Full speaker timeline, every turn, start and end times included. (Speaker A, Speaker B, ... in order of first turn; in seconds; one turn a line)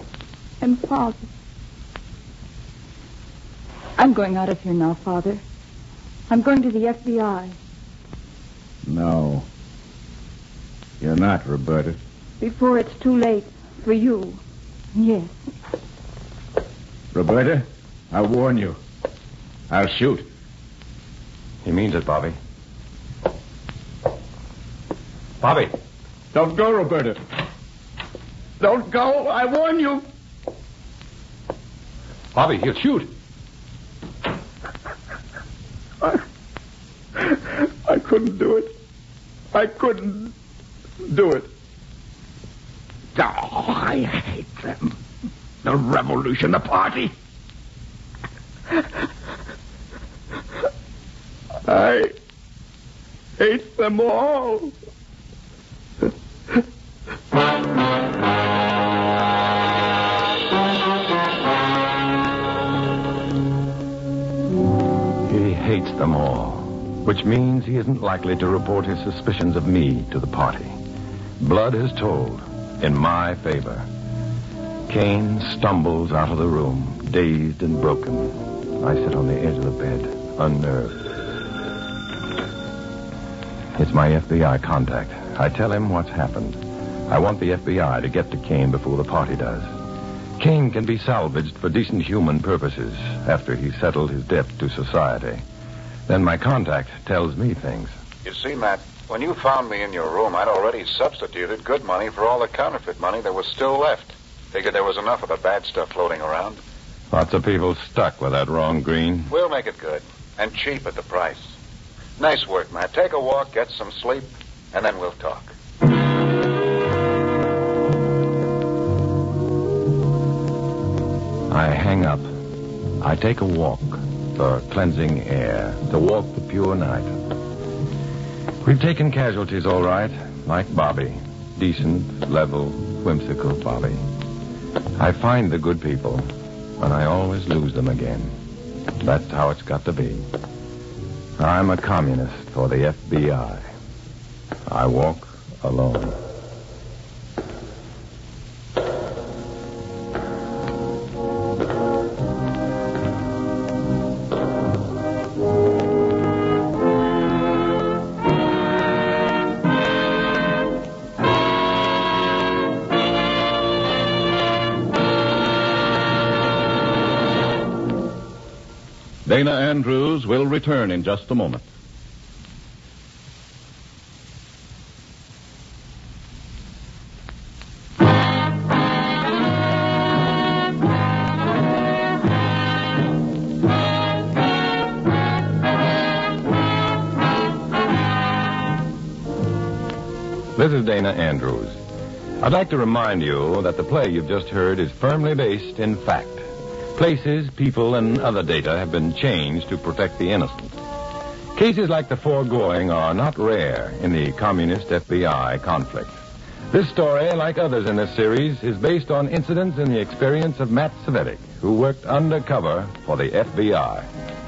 Speaker A: 0.6-1.3
Speaker A: 4.0-5.4
Speaker A: 6.3-7.5
Speaker B: 8.8-9.4
Speaker B: 11.0-12.0
Speaker A: 12.4-14.4
Speaker A: 14.9-15.3
Speaker B: 17.1-18.8
Speaker B: 19.7-20.3
Speaker C: 21.6-22.4
Speaker C: 25.4-25.7
Speaker B: 26.3-27.2
Speaker B: 28.6-30.0
Speaker C: 32.3-33.1
Speaker B: 37.2-38.7
Speaker B: 39.5-40.3
Speaker B: 41.0-41.5
Speaker B: 43.1-45.0
Speaker B: 45.6-47.1
Speaker B: 51.6-52.1
Speaker B: 53.4-54.7
Speaker C: 65.2-70.8
Speaker C: 71.4-73.9
Speaker C: 74.9-81.1
Speaker C: 83.8-89.7
Speaker C: 90.4-95.4
Speaker C: 96.1-97.9
Speaker D: 98.2-106.6
Speaker C: 107.1-109.3
Speaker D: 109.3-111.5
Speaker D: 112.2-115.5
Speaker C: 121.5-122.3
Speaker C: 123.0-127.1
Speaker C: 128.6-134.1
Speaker C: 135.0-136.3
Speaker C: 136.8-138.3
Speaker C: 139.0-140.3
Speaker C: 141.4-143.7
Speaker C: 144.7-146.2
Speaker E: 169.2-171.7
Speaker C: 190.5-191.8
Speaker C: 192.4-200.7
Speaker C: 201.5-206.1
Speaker C: 206.7-214.1